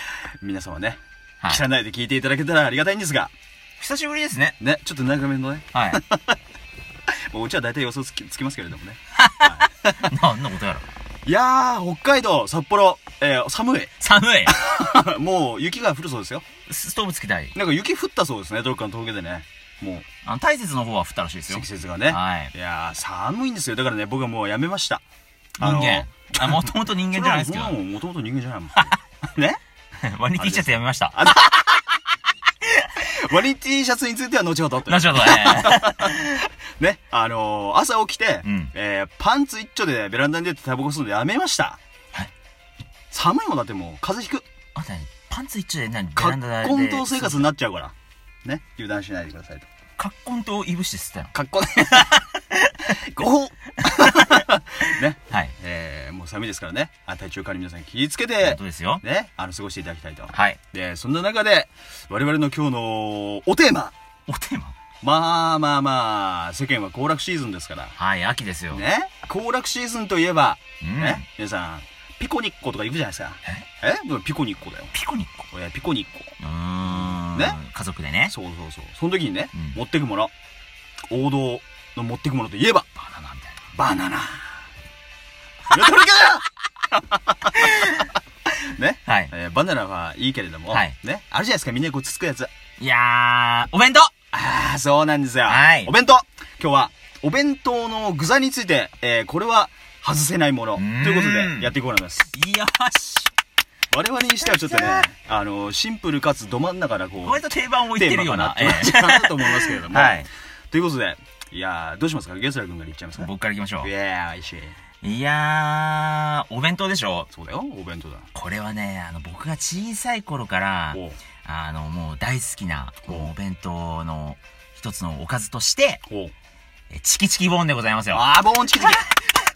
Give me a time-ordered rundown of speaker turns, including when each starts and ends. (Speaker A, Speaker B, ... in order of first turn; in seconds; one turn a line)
Speaker A: 0.4-3.3
Speaker B: 3.8-4.5
Speaker A: 4.6-6.3
Speaker B: 5.7-6.0
Speaker A: 7.3-10.0
Speaker B: 9.2-10.8
Speaker A: 11.2-13.9
Speaker B: 14.0-14.6
Speaker A: 14.4-16.4
Speaker B: 16.6-17.5
Speaker A: 17.5-20.1
Speaker B: 20.2-22.5
Speaker A: 21.5-25.0
Speaker A: 25.6-29.6
Speaker B: 25.6-27.7
Speaker B: 30.0-31.2
Speaker A: 30.4-31.8
Speaker A: 33.0-41.8
Speaker B: 34.9-36.4
Speaker B: 38.4-38.7
Speaker A: 43.1-44.4
Speaker B: 44.7-47.5
Speaker A: 46.1-49.7
Speaker B: 50.0-51.3
Speaker A: 51.3-52.2
Speaker B: 52.1-52.4
Speaker A: 52.9-63.9
Speaker B: 53.9-55.5
Speaker B: 58.4-59.0
Speaker B: 60.3-60.6
Speaker B: 64.3-64.8
Speaker A: 65.0-67.9
Speaker B: 68.0-68.8
Speaker A: 68.7-74.9
Speaker B: 70.8-71.2
Speaker B: 74.9-75.5
Speaker A: 75.5-77.6
Speaker B: 76.4-78.3
Speaker A: 78.3-80.3
Speaker B: 79.5-79.8
Speaker A: 81.1-82.9
Speaker B: 83.0-83.7
Speaker A: 83.7-84.5
Speaker A: 85.7-87.5
Speaker B: 87.5-88.1
Speaker A: 88.6-92.5
Speaker B: 89.0-89.3
Speaker B: 90.7-90.9
Speaker B: 92.8-94.1
Speaker A: 94.3-102.3
Speaker B: 95.5-95.9
Speaker B: 100.8-101.8
Speaker B: 102.3-103.3
Speaker A: 103.9-113.3
Speaker B: 104.4-105.1
Speaker B: 107.2-110.3
Speaker B: 113.2-113.9
Speaker A: 113.8-114.8
Speaker B: 115.0-117.3
Speaker A: 117.3-118.3
Speaker B: 118.3-126.0
Speaker A: 120.9-121.2
Speaker A: 123.0-123.3
Speaker B: 126.9-128.2
Speaker A: 128.1-129.0
Speaker B: 128.8-129.2